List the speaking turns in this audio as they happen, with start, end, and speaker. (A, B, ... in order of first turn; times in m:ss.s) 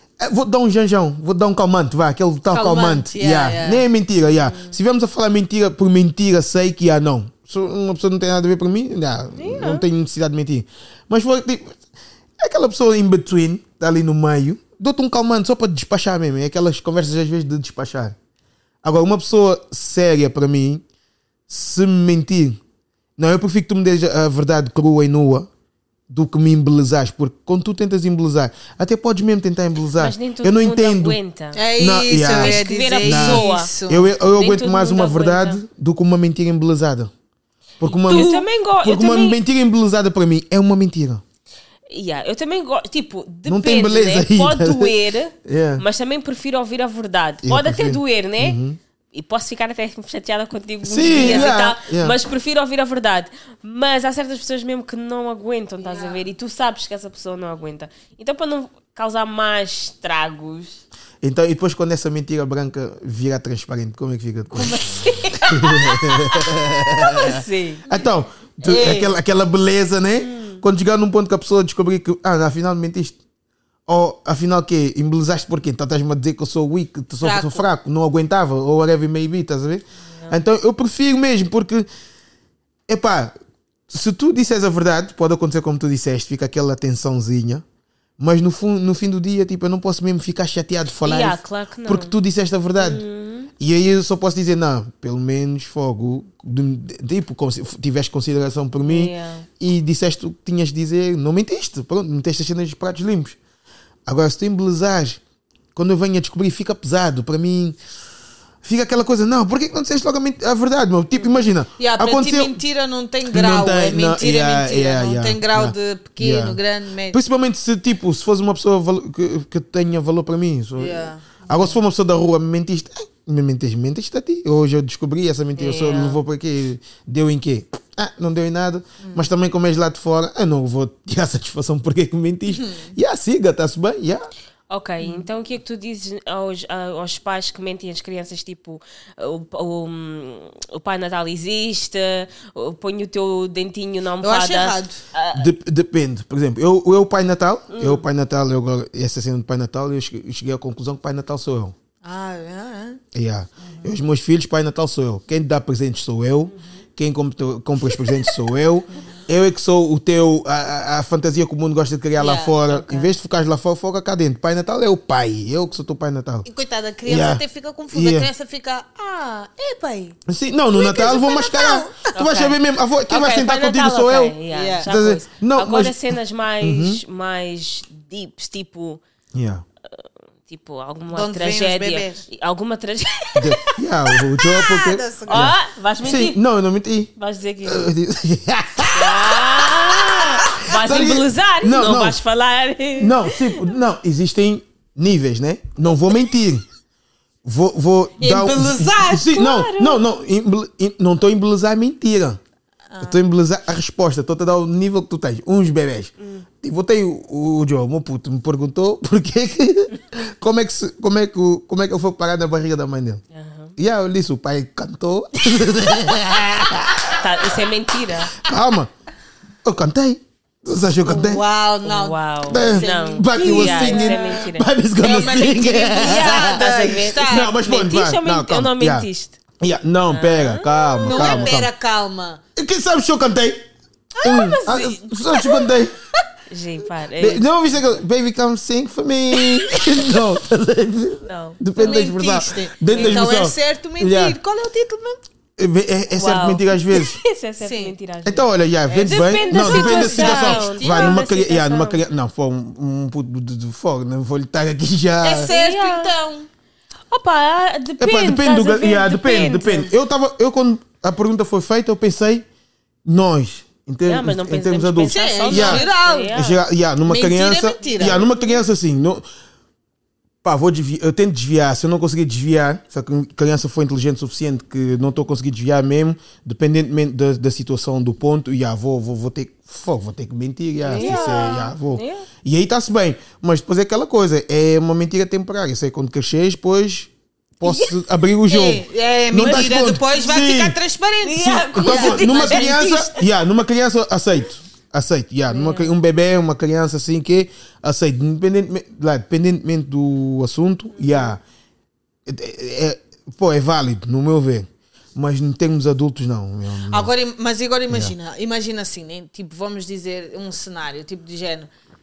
0:00.2-0:11.8 A
0:02.5-0:03.8 B
0:04.4-0:04.7 C
0:09.4-0:09.8 C
0:12.4-0:18.2 A
0:18.8-0:20.8 A
0:21.5-0:22.6 A
0:23.2-0:25.5 A
0:26.1-0:31.2 A
0:30.0-0:31.6 C
0:31.5-0:34.1 B
0:31.8-0:37.1 A
0:32.2-0:35.6 C
0:37.8-0:41.2 A
0:37.8-0:39.4 C
0:38.1-0:38.5 B
0:41.9-0:48.6 C
0:43.4-0:44.9 A
0:45.4-0:45.8 A
0:47.4-0:48.8 A
0:49.1-1:00.8 C
0:50.8-0:52.2 A
0:51.0-0:51.5 B
0:55.8-0:56.3 B
1:01.2-1:13.2 A
1:04.6-1:06.4 C
1:04.8-1:05.3 B
1:07.0-1:07.9 C
1:08.6-1:09.1 B
1:10.2-1:10.6 C
1:13.9-1:21.9 A
1:17.2-1:17.6 B
1:22.9-1:23.3 A
1:23.9-1:27.6 A
1:28.2-1:33.0 A
1:31.0-1:32.1 C
1:32.8-1:33.5 C
1:33.6-1:43.4 A
1:38.8-1:39.4 C
1:44.0-1:45.2 A
1:45.7-1:47.8 A
1:48.6-1:52.6 A
1:51.8-1:57.2 B
1:53.3-1:56.6 A
1:57.1-2:14.3 A
2:00.8-2:01.8 B
2:05.6-2:06.2 C
2:09.0-2:09.3 B
2:12.5-2:12.9 B
2:14.7-2:25.5 C
2:24.2-2:25.0 B
2:25.3-2:31.7 A
2:27.7-2:28.0 C
2:32.0-2:33.0 B
2:33.1-2:46.5 A
2:33.6-2:33.9 B
2:42.2-2:42.6 B
2:42.2-2:43.1 C
2:46.4-2:50.2 B
2:47.0-2:48.3 A
2:50.3-2:57.0 A
2:50.7-2:52.1 B
2:52.1-2:59.0 C
2:54.5-2:54.9 B
2:59.3-2:59.6 A
2:59.9-3:04.2 C
3:01.1-3:02.2 B
3:03.3-3:07.1 A
3:04.5-3:05.5 B
3:05.3-3:06.4 C
3:07.2-3:07.9 C
3:07.6-3:09.4 A
3:09.0-3:13.6 C
3:09.5-3:10.4 B
3:10.6-3:12.2 A
3:13.0-3:16.6 A
3:17.4-3:22.4 A
3:18.2-3:19.5 B
3:19.2-3:20.0 C
3:22.9-3:23.3 B
3:23.0-3:33.2 A
3:26.2-3:26.4 C
3:33.3-3:33.7 C
3:33.8-3:37.3 A
3:37.1-3:38.3 C
3:38.4-3:38.9 A
3:39.6-3:41.4 A
3:41.0-3:47.6 B
3:41.8-3:44.7 C
3:42.5-3:49.1 A
3:45.9-3:49.4 C
3:49.6-3:51.7 A
3:50.1-3:51.6 C
3:51.0-3:52.4 B
3:52.6-3:53.6 A
3:54.2-3:55.0 C
3:54.2-3:55.9 A
3:54.3-3:54.7 B
3:55.4-3:55.7 B
3:56.5-3:57.4 C
3:57.2-4:04.4 A
4:01.2-4:01.6 C
4:01.8-4:05.2 B
4:02.9-4:03.3 C
4:05.6-4:07.2 A
4:06.1-4:12.0 C
4:07.6-4:07.9 B
4:08.2-4:15.5 A
4:08.9-4:11.2 B
4:15.2-4:16.5 B
4:15.4-4:16.1 C
4:17.1-4:19.9 C
4:18.0-4:22.4 A
4:23.0-4:29.2 A
4:24.0-4:26.6 C
4:25.1-4:26.4 B
4:27.0-4:28.2 B
4:27.8-4:28.6 C
4:30.4-4:50.8 A
4:40.8-4:42.2 C
4:40.9-4:41.6 B
4:47.6-4:48.0 C
4:48.5-4:53.0 B
4:49.4-4:49.8 C
4:51.2-4:53.2 C
4:51.4-5:01.4 A
4:55.5-4:55.9 C
5:01.0-5:01.3 C
5:02.2-5:07.1 A
5:06.9-5:11.7 B